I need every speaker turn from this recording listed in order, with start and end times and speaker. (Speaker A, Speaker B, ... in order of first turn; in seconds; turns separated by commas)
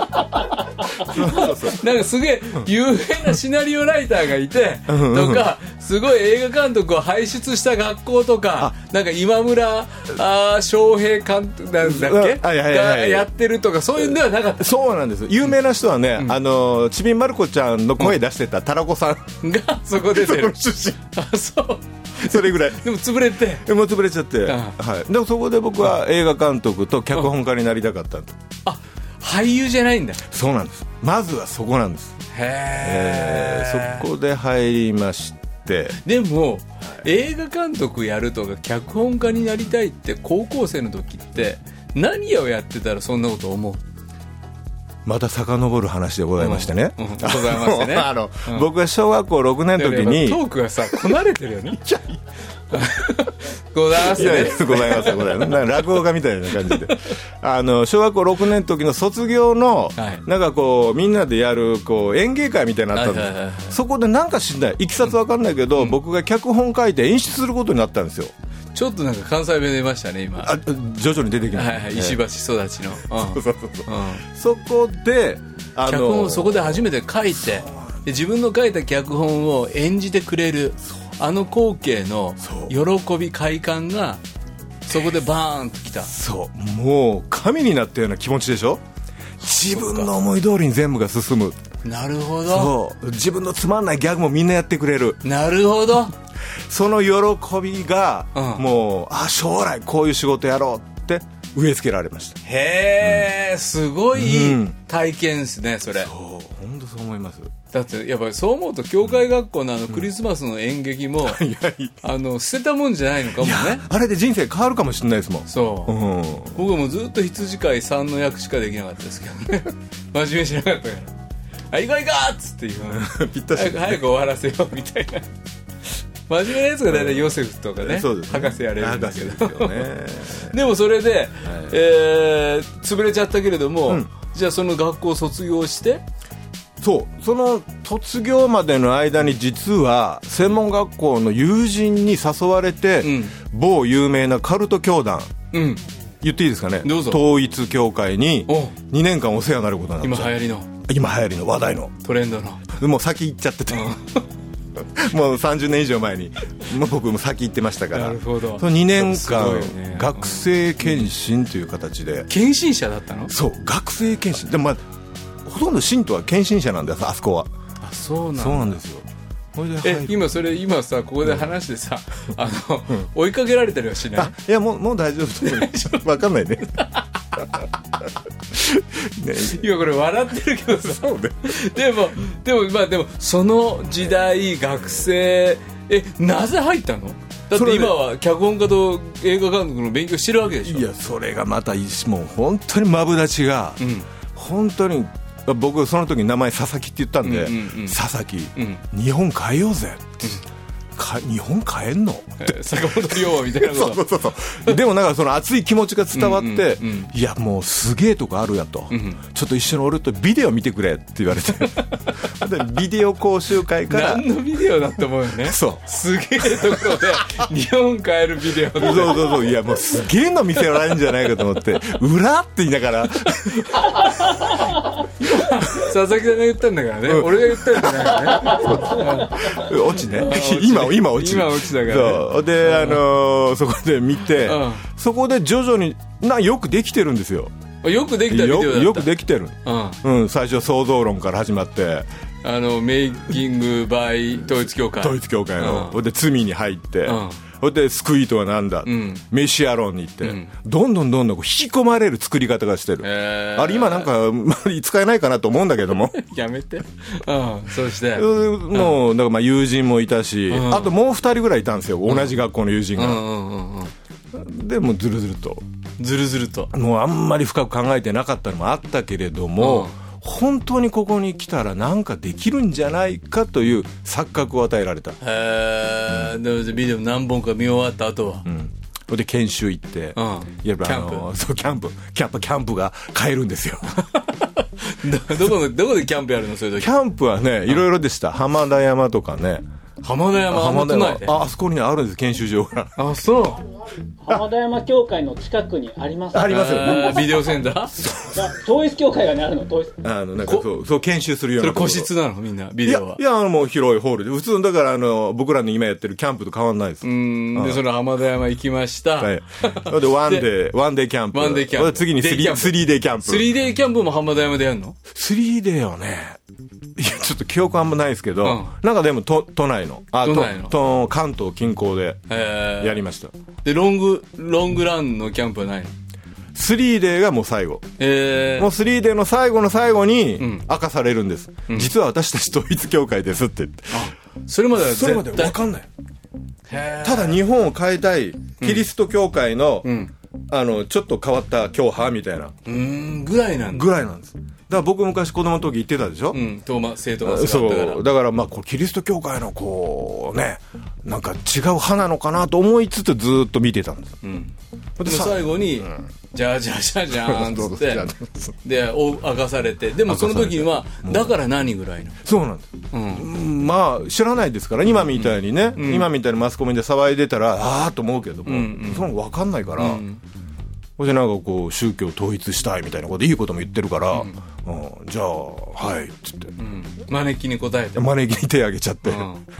Speaker A: 0.9-1.8, Speaker B: 1.0-14.7, Speaker A: 4.9-5.5, Speaker A: 11.8-13.3, Speaker A: 14.0-19.4, Speaker B: 19.4-23.7, Speaker A: 20.0-21.0, Speaker A: 22.2-22.9, Speaker A: 23.6-28.4, Speaker B: 24.4-24.8, Speaker B: 28.6-30.2, Speaker A: 30.2-32.2, Speaker B: 32.3-34.1, Speaker A: 32.8-36.0, Speaker B: 36.0-43.8, Speaker A: 45.0-51.2, Speaker B: 46.4-48.7, Speaker B: 49.8-51.8, Speaker A: 51.8-52.2, Speaker B: 52.7-55.8, Speaker A: 53.9-68.3, Speaker B: 60.0-60.2, Speaker B: 62.9-63.8, Speaker B: 68.7-70.6, Speaker A: 70.4-72.2, Speaker B: 71.5-74.2, Speaker A: 73.1-78.0, Speaker B: 75.8-84.2, Speaker A: 82.4-82.7, Speaker B: 84.8-86.1, Speaker A: 86.0-88.8, Speaker A: 89.4-91.6, Speaker B: 89.4-90.1, Speaker B: 91.8-92.7, Speaker A: 92.5-95.2, Speaker B: 95.2-96.1, Speaker A: 96.7-102.4, Speaker B: 98.3-98.6, Speaker B: 102.4-106.1, Speaker A: 103.0-103.3, Speaker A: 104.1-104.8, Speaker A: 105.9-107.5, Speaker B: 107.7-111.4, Speaker A: 111.2-112.0, Speaker B: 112.0-113.8, Speaker A: 113.4-116.6, Speaker B: 115.5-115.9, Speaker B: 116.5-121.1, Speaker B: 121.7-125.3, Speaker A: 122.9-124.0, Speaker B: 126.3-129.9, Speaker A: 126.9-130.6, Speaker B: 130.5-136.0, Speaker A: 131.4-131.8, Speaker A: 136.8-145.3, Speaker B: 143.0-143.4, Speaker B: 145.5-145.8, Speaker A: 146.2-151.9, Speaker B: 146.8-147.2, Speaker B: 148.5-148.8, Speaker B: 150.0-150.7, Speaker B: 152.0-152.7, Speaker A: 152.7-154.0, Speaker B: 153.7-154.2, Speaker A: 154.8-162.3, Speaker B: 157.9-161.1, Speaker B: 162.3-163.3, Speaker A: 163.3-164.8, Speaker A: 165.4-167.5, Speaker B: 167.8-168.8, Speaker A: 168.3-170.2, Speaker B: 169.8-174.3, Speaker A: 174.1-176.8, Speaker B: 175.4-176.1, Speaker B: 176.7-177.4, Speaker A: 178.5-179.6, Speaker B: 179.4-190.9, Speaker A: 180.8-181.6, Speaker A: 187.5-188.0, Speaker A: 190.6-193.8, Speaker B: 193.8-194.1, Speaker A: 194.3-200.4, Speaker B: 197.2-198.0, Speaker B: 198.6-198.8, Speaker A: 200.9-214.2, Speaker B: 202.4-204.0, Speaker B: 206.1-207.1, Speaker B: 208.9-209.2, Speaker B: 211.7-212.2, Speaker B: 213.9-219.5, Speaker A: 215.4-215.8, Speaker A: 216.4-217.2, Speaker A: 218.7-224.3, Speaker B: 223.8-233.0, Speaker A: 227.1-237.5, Speaker B: 234.4-234.9, Speaker B: 237.8-239.1, Speaker A: 238.3-242.1, Speaker B: 239.6-240.0, Speaker B: 242.4-246.0, Speaker A: 244.6-256.2, Speaker B: 247.0-247.4, Speaker B: 248.8-249.2, Speaker B: 250.2-250.5, Speaker B: 253.0-254.1, Speaker B: 256.1-259.0, Speaker A: 258.1-263.2, Speaker B: 260.5-260.9, Speaker B: 262.1-262.3, Speaker B: 262.9-263.9, Speaker A: 264.3-265.6, Speaker B: 266.0-266.7, Speaker A: 266.7-275.2, Speaker B: 269.6-269.9, Speaker B: 275.2-278.4, Speaker A: 278.4-284.0, Speaker B: 280.1-281.3, Speaker B: 284.1-286.9, Speaker A: 286.8-289.6, Speaker B: 290.0-291.4, Speaker A: 290.5-293.0, Speaker B: 293.0-293.6, Speaker C: 294.2-297.5, Speaker A: 296.3-297.3, Speaker B: 296.5-298.0, Speaker A: 297.9-298.6, Speaker C: 298.3-300.0, Speaker A: 300.0-302.1, Speaker B: 301.6-303.2, Speaker A: 302.8-307.8, Speaker B: 307.0-310.4, Speaker A: 309.2-313.5, Speaker B: 311.3-315.0, Speaker A: 315.1-316.4, Speaker A: 316.9-322.2, Speaker B: 318.4-318.7, Speaker B: 320.2-320.8, Speaker B: 322.3-323.0, Speaker A: 322.8-323.3, Speaker B: 323.6-325.9, Speaker A: 326.5-327.9, Speaker B: 328.0-328.7, Speaker A: 328.6-334.0, Speaker B: 330.4-330.6, Speaker B: 333.9-335.6, Speaker A: 334.8-335.9, Speaker B: 336.7-337.4, Speaker A: 337.0-339.9, Speaker B: 338.6-338.8, Speaker B: 339.8-340.1, Speaker A: 340.5-342.5, Speaker B: 342.6-343.9, Speaker A: 343.7-346.4, Speaker B: 346.3-348.0, Speaker A: 347.2-354.1, Speaker B: 354.2-358.1, Speaker A: 355.0-356.0, Speaker A: 357.1-358.6, Speaker B: 358.6-362.2, Speaker A: 360.1-361.4, Speaker A: 362.2-370.0, Speaker B: 362.9-363.3, Speaker B: 364.9-366.1, Speaker B: 368.4-369.1, Speaker B: 369.8-370.2, Speaker A: 371.0-376.5, Speaker B: 376.6-378.1, Speaker A: 377.9-379.3, Speaker B: 379.0-379.4